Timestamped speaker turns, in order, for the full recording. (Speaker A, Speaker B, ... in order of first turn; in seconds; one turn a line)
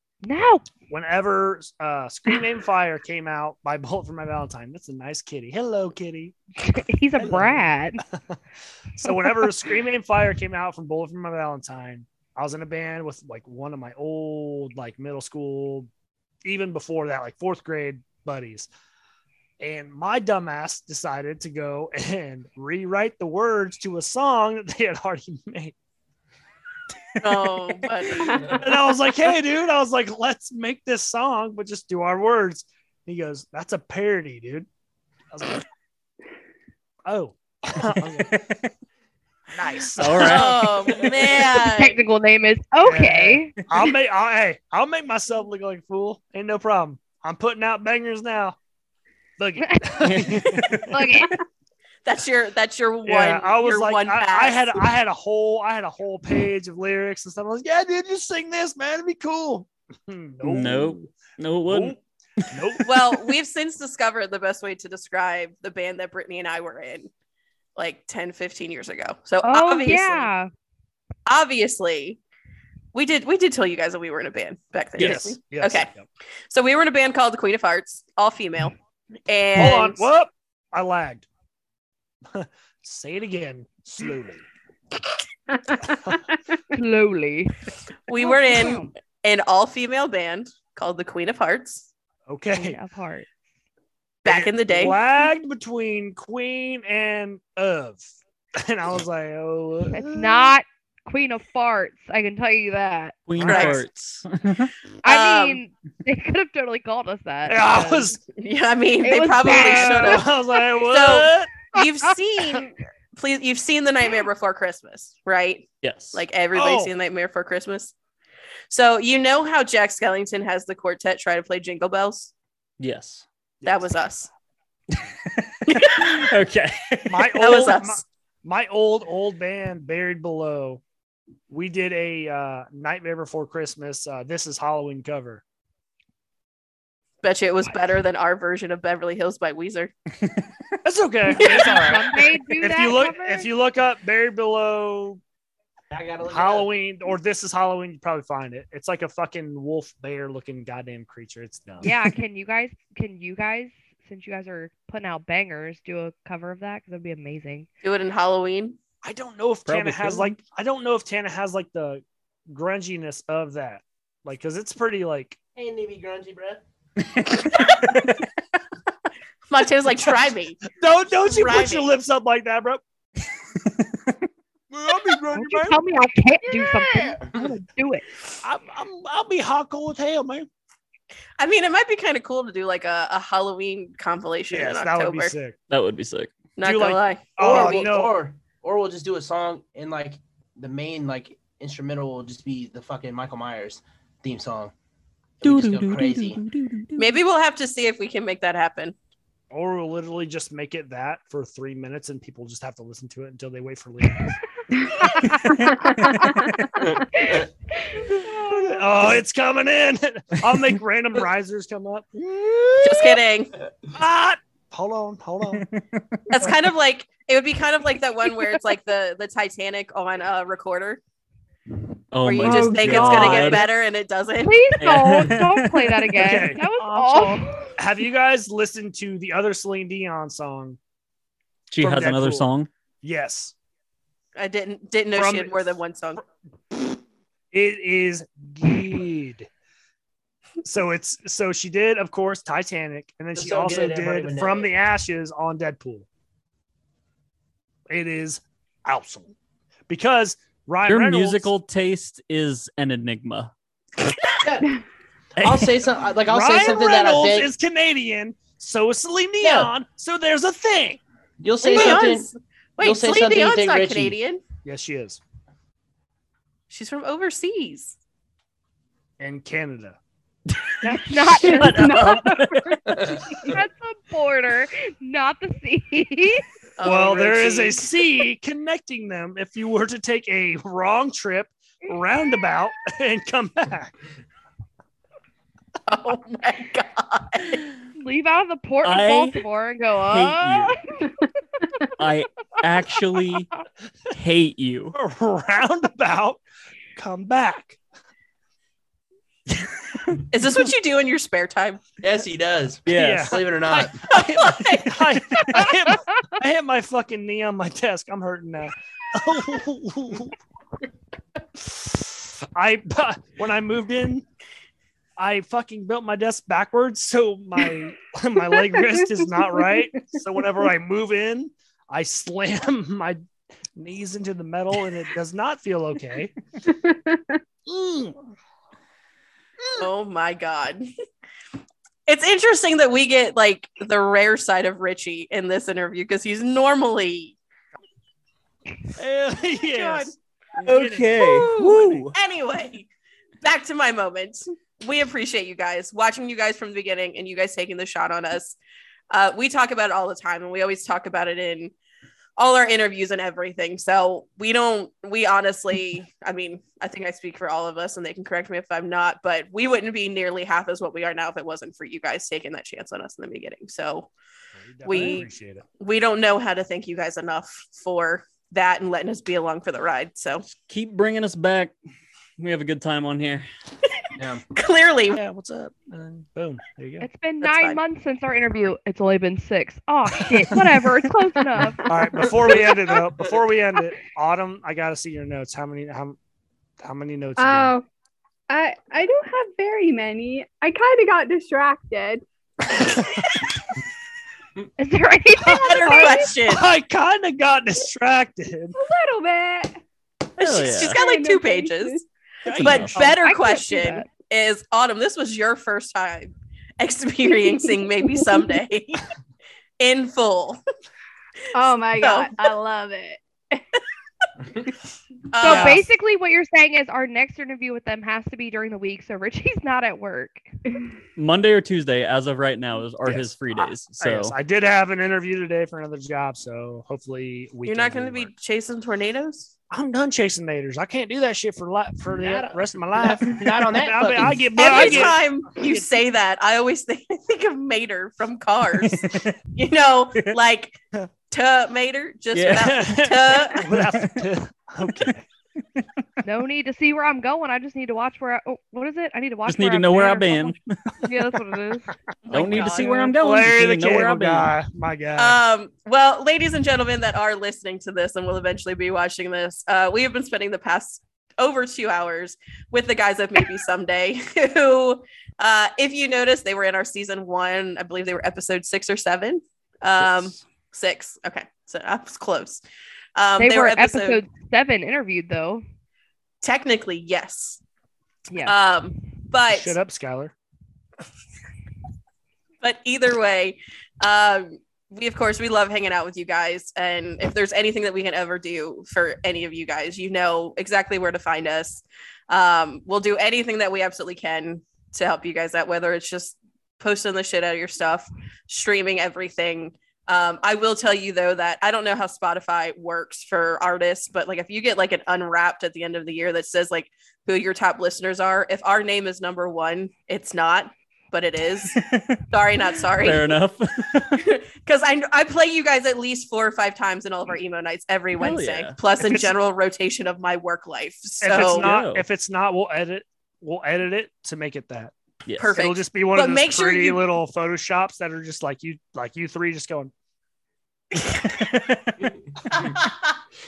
Speaker A: 0.2-0.8
Speaker B: 0.9-6.4
Speaker A: 6.6-8.0
Speaker B: 7.2-8.4
Speaker B: 9.0-15.9
Speaker B: 16.4-18.7
Speaker B: 19.6-25.8
Speaker C: 27.2-28.6
Speaker B: 28.3-34.7
Speaker B: 35.3-35.6
Speaker B: 37.1-38.4
Speaker D: 38.0-38.7
Speaker B: 39.5-41.3
Speaker D: 40.0-41.0
Speaker C: 40.2-42.0
Speaker A: 41.5-43.6
Speaker B: 42.8-48.6
Speaker B: 49.4-51.1
Speaker A: 49.6-50.3
Speaker D: 50.0-50.9
Speaker A: 50.9-51.4
Speaker C: 52.0-54.8
Speaker B: 53.0-62.0
Speaker D: 60.4-62.8
Speaker B: 62.5-62.9
Speaker C: 62.9-67.1
Speaker C: 67.8-70.3
Speaker A: 69.4-70.5
Speaker C: 71.3-72.2
Speaker C: 72.9-75.9
Speaker B: 75.0-76.0
Speaker C: 76.5-78.8
Speaker C: 79.3-80.1
Speaker B: 79.5-81.3
Speaker B: 82.3-84.5
Speaker E: 85.7-86.2
Speaker A: 86.7-88.9
Speaker C: 88.1-91.9
Speaker B: 92.3-92.8
Speaker A: 92.6-93.3
Speaker C: 94.2-95.0
Speaker B: 94.3-100.5
Speaker A: 99.9-103.3
Speaker D: 103.3-104.7
Speaker B: 103.3-103.8
Speaker C: 103.4-103.8
Speaker A: 105.0-108.2
Speaker C: 105.0-105.6
Speaker B: 107.5-108.2
Speaker C: 108.4-117.9
Speaker A: 109.0-110.3
Speaker B: 109.4-112.6
Speaker D: 115.8-116.2
Speaker B: 116.5-116.9
Speaker C: 118.7-122.3
Speaker D: 122.8-123.3
Speaker B: 123.6-123.9
Speaker C: 123.6-124.3
Speaker D: 124.9-127.7
Speaker C: 125.7-126.3
Speaker B: 127.1-130.8
Speaker C: 127.4-128.0
Speaker B: 131.5-135.4
Speaker C: 137.2-139.9
Speaker B: 140.8-142.1
Speaker A: 141.3-143.5
Speaker F: 141.4-142.2
Speaker B: 142.6-145.2
Speaker F: 145.9-146.7
Speaker B: 146.2-151.9
Speaker A: 151.8-157.7
Speaker C: 157.8-158.8
Speaker B: 159.0-165.4
Speaker D: 159.7-160.4
Speaker F: 165.6-166.6
Speaker D: 167.1-168.2
Speaker C: 167.5-168.0
Speaker C: 169.5-170.6
Speaker B: 170.7-172.8
Speaker C: 171.3-171.8
Speaker F: 171.3-171.9
Speaker D: 173.7-174.2
Speaker B: 174.7-175.8
Speaker A: 175.3-178.1
Speaker B: 178.4-180.5
Speaker C: 181.4-185.3
Speaker B: 184.5-185.6
Speaker D: 185.7-186.3
Speaker C: 186.6-187.9
Speaker B: 186.6-188.2
Speaker F: 187.4-194.7
Speaker F: 195.4-196.4
Speaker D: 195.4-197.1
Speaker C: 197.0-198.9
Speaker B: 199.5-204.4
Speaker D: 205.3-206.6
Speaker E: 205.8-206.6
Speaker B: 208.4-213.2
Speaker C: 212.8-213.5
Speaker B: 213.9-215.7
Speaker D: 215.5-216.5
Speaker C: 216.3-221.0
Speaker D: 222.1-223.7
Speaker C: 222.2-224.6
Speaker B: 222.4-223.7
Speaker A: 224.4-227.7
Speaker D: 224.8-226.2
Speaker B: 226.2-230.8
Speaker D: 231.7-232.7
Speaker B: 231.8-232.5
Speaker B: 233.0-233.5
Speaker C: 234.4-236.2
Speaker B: 235.1-235.8
Speaker B: 236.7-237.0
Speaker B: 237.5-239.5
Speaker B: 240.6-246.1
Speaker F: 243.3-244.7
Speaker B: 247.9-249.3
Speaker B: 249.9-251.5
Speaker D: 250.9-253.5
Speaker F: 254.4-254.8
Speaker F: 255.4-257.5
Speaker D: 255.4-255.8
Speaker B: 256.2-261.0
Speaker F: 259.4-259.7
Speaker F: 261.4-264.2
Speaker C: 261.6-264.4
Speaker B: 264.6-265.2
Speaker C: 266.7-268.0
Speaker B: 269.2-270.0
Speaker D: 270.5-273.2
Speaker E: 270.8-273.6
Speaker A: 270.9-272.2
Speaker A: 273.5-276.4
Speaker C: 276.8-277.9
Speaker B: 276.8-284.0
Speaker C: 285.9-287.6
Speaker A: 288.0-291.2
Speaker D: 288.8-289.4
Speaker D: 290.1-290.8
Speaker D: 292.0-293.5
Speaker D: 294.1-295.0
Speaker B: 294.9-296.4
Speaker B: 297.0-297.8
Speaker C: 300.3-301.8
Speaker F: 302.0-304.1
Speaker D: 302.9-303.4
Speaker B: 302.9-310.4
Speaker C: 304.1-305.1
Speaker B: 311.6-314.3
Speaker B: 315.2-323.2
Speaker E: 318.5-320.0
Speaker B: 323.8-326.3
Speaker E: 326.7-327.4
Speaker B: 327.7-328.2
Speaker B: 329.6-329.9
Speaker C: 329.8-330.9
Speaker C: 332.1-337.4
Speaker B: 338.9-342.1
Speaker C: 339.7-340.1
Speaker D: 340.6-342.1
Speaker C: 341.2-342.9
Speaker C: 343.4-348.6
Speaker C: 349.1-351.7
Speaker C: 352.4-364.1
Speaker B: 364.6-365.6
Speaker C: 364.9-365.3
Speaker D: 364.9-365.2
Speaker C: 365.8-370.4
Speaker D: 370.6-371.7
Speaker D: 372.4-373.4
Speaker F: 374.2-374.4
Speaker C: 374.5-375.2
Speaker B: 375.1-377.1
Speaker A: 377.0-381.9
Speaker C: 377.4-377.8
Speaker B: 380.2-381.0
Speaker B: 381.9-386.2
Speaker B: 386.8-387.8
Speaker E: 387.4-387.9
Speaker E: 388.5-392.2
Speaker B: 392.7-393.4
Speaker A: 394.8-396.2
Speaker C: 395.4-396.7
Speaker B: 395.8-398.8
Speaker E: 395.9-396.3
Speaker E: 398.8-399.8
Speaker C: 400.4-409.1
Speaker D: 400.4-401.0
Speaker E: 400.9-402.0
Speaker B: 402.5-403.2
Speaker D: 402.5-402.9
Speaker A: 403.0-404.1
Speaker E: 407.3-408.6
Speaker C: 409.8-410.6
Speaker E: 411.5-413.6
Speaker C: 412.0-412.5
Speaker C: 415.3-415.9
Speaker A: 415.4-420.5
Speaker D: 421.2-424.4
Speaker B: 423.1-423.3
Speaker B: 424.0-428.3
Speaker C: 427.6-429.5
Speaker B: 429.7-435.9
Speaker F: 432.2-435.1
Speaker C: 434.6-443.7
Speaker D: 438.8-439.4
Speaker D: 442.3-442.7
Speaker B: 442.5-445.3
Speaker D: 443.9-444.2
Speaker A: 446.2-451.9
Speaker D: 449.5-451.3
Speaker C: 452.2-452.9
Speaker D: 452.3-454.5
Speaker B: 452.6-455.4
Speaker C: 455.2-472.6
Speaker C: 473.2-474.2
Speaker A: 473.4-475.6
Speaker C: 476.4-477.6
Speaker A: 478.3-478.6
Speaker C: 478.4-479.8
Speaker B: 479.5-480.3
Speaker C: 482.6-513.4
Speaker D: 511.7-512.2
Speaker D: 512.9-514.3
Speaker C: 514.1-521.7
Speaker D: 518.2-518.8
Speaker B: 519.0-519.3
Speaker B: 521.2-524.9
Speaker D: 521.3-522.0
Speaker D: 525.3-525.6
Speaker C: 525.4-527.0
Speaker B: 525.5-529.9
Speaker C: 531.0-531.4
Speaker C: 532.5-533.2